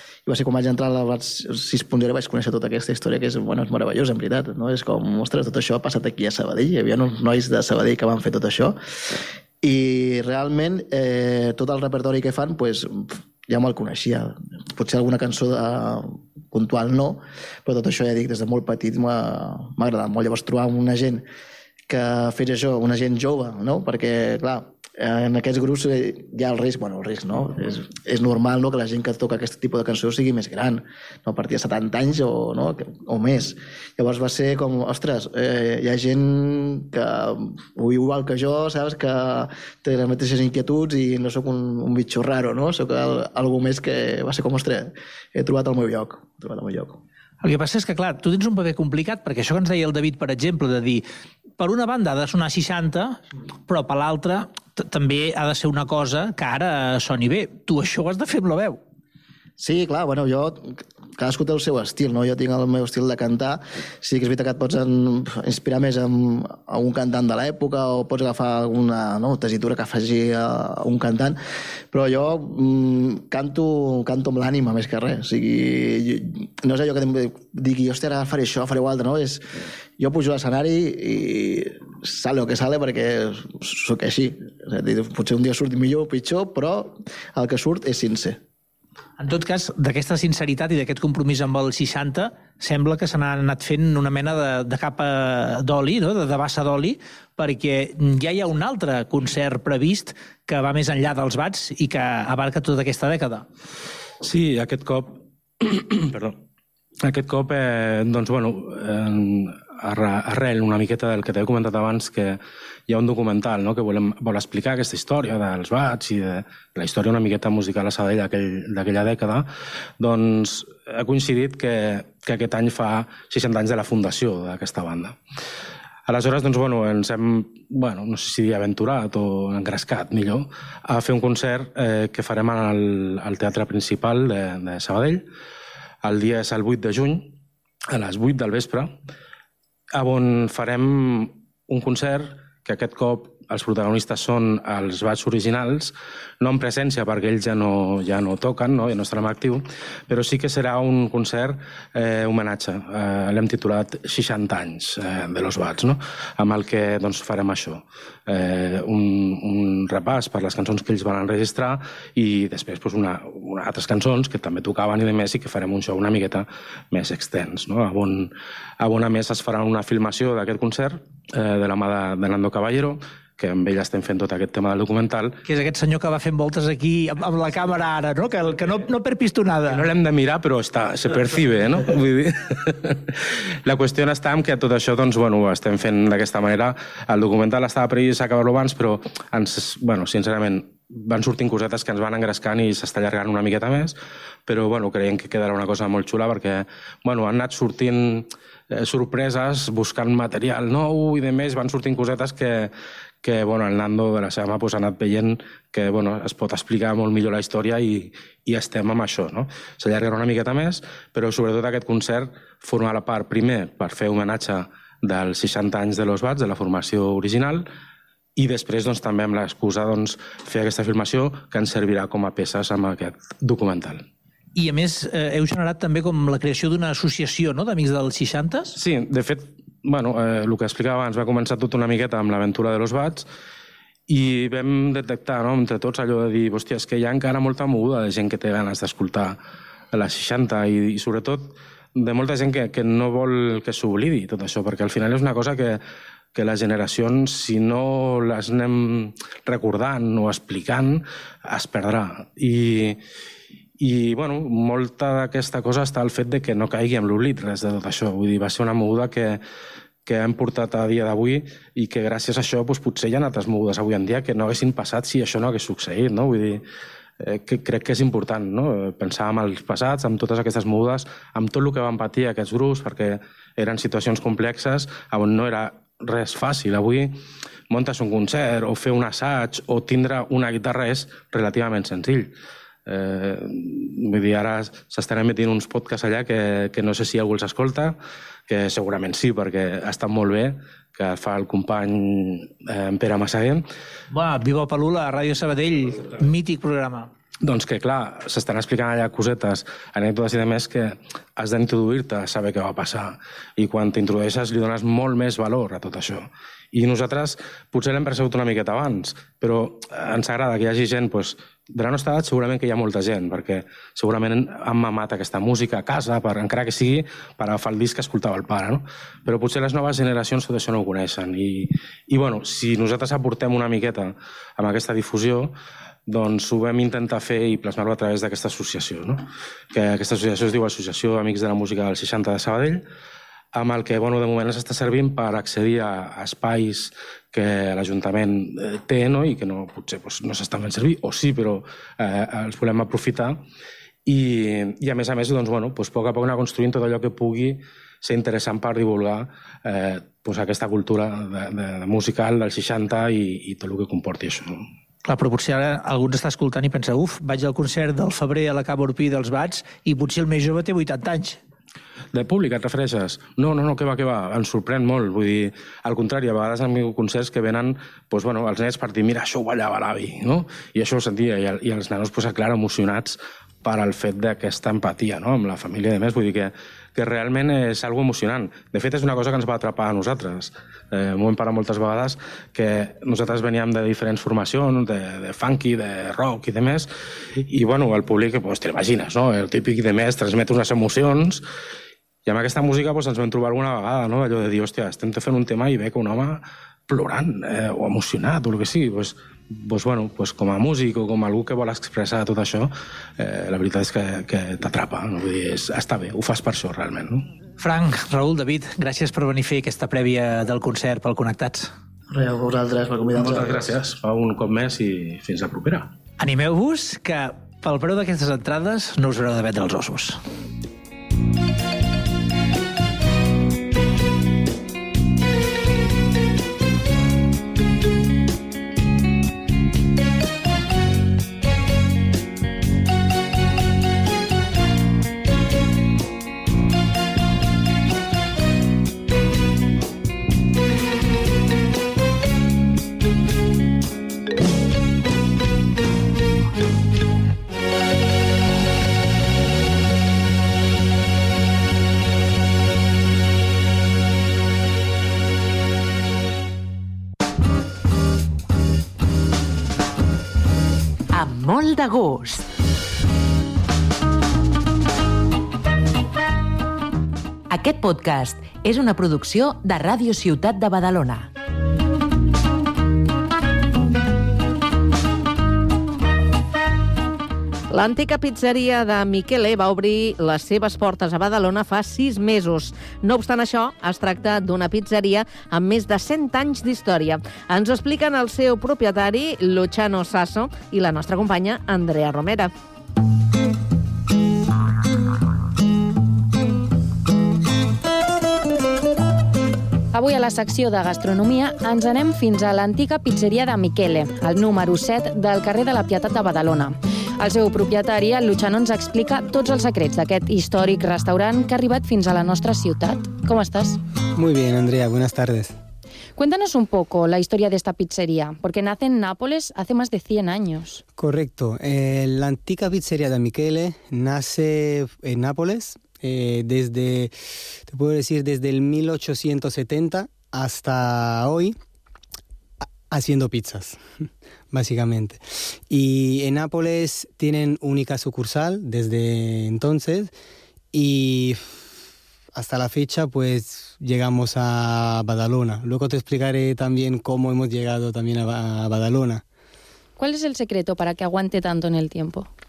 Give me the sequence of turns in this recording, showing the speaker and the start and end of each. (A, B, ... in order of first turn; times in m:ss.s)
0:00.3-0:08.8 A
0:09.6-0:21.3 A
0:21.9-0:47.0 A
0:47.4-0:51.0 B
0:51.6-0:58.8 B
0:59.6-1:11.4 A
1:11.9-1:28.4 A
1:29.2-1:43.4 B
1:44.2-1:46.4 C
1:47.0-2:05.2 C
2:06.1-2:15.2 C
2:16.0-2:17.4 C
2:17.9-2:18.9 C
2:19.9-2:55.4 C
2:55.4-2:59.9 B
2:59.7-3:22.7 C
3:23.2-3:37.7 C
3:38.4-3:44.1 C
3:44.6-3:48.8 B
3:48.8-3:53.3 C
3:54.1-3:59.4 C
3:59.9-4:05.8 C
4:06.3-4:13.0 C
4:13.8-4:19.4 C
4:20.0-4:26.6 C
4:27.2-4:37.2 C
4:37.7-4:42.3 C
4:42.9-4:48.0 C
4:48.5-4:53.7 C
4:54.1-4:57.1 B
4:57.4-5:25.5 C
5:26.1-5:32.8 C
5:33.5-5:43.4 C
5:44.1-5:54.7 C
5:55.1-6:01.4 B
6:02.1-6:31.4 C
6:32.2-6:47.3 C
6:47.6-6:51.7 B
6:52.1-6:53.7 A
6:53.2-6:55.9 C
6:56.2-7:00.2 B
7:41.1-7:42.4 D
7:47.5-7:51.3 D
7:57.7-8:12.5 E
8:19.9-8:33.8 F
8:34.2-8:35.6 G
8:36.2-8:40.8 F
8:41.0-8:47.1 G
8:47.7-8:51.6 G
8:52.6-8:53.8 G
8:54.5-9:00.1 G
9:00.7-9:01.5 G
9:02.4-9:09.2 G
9:10.0-9:12.3 F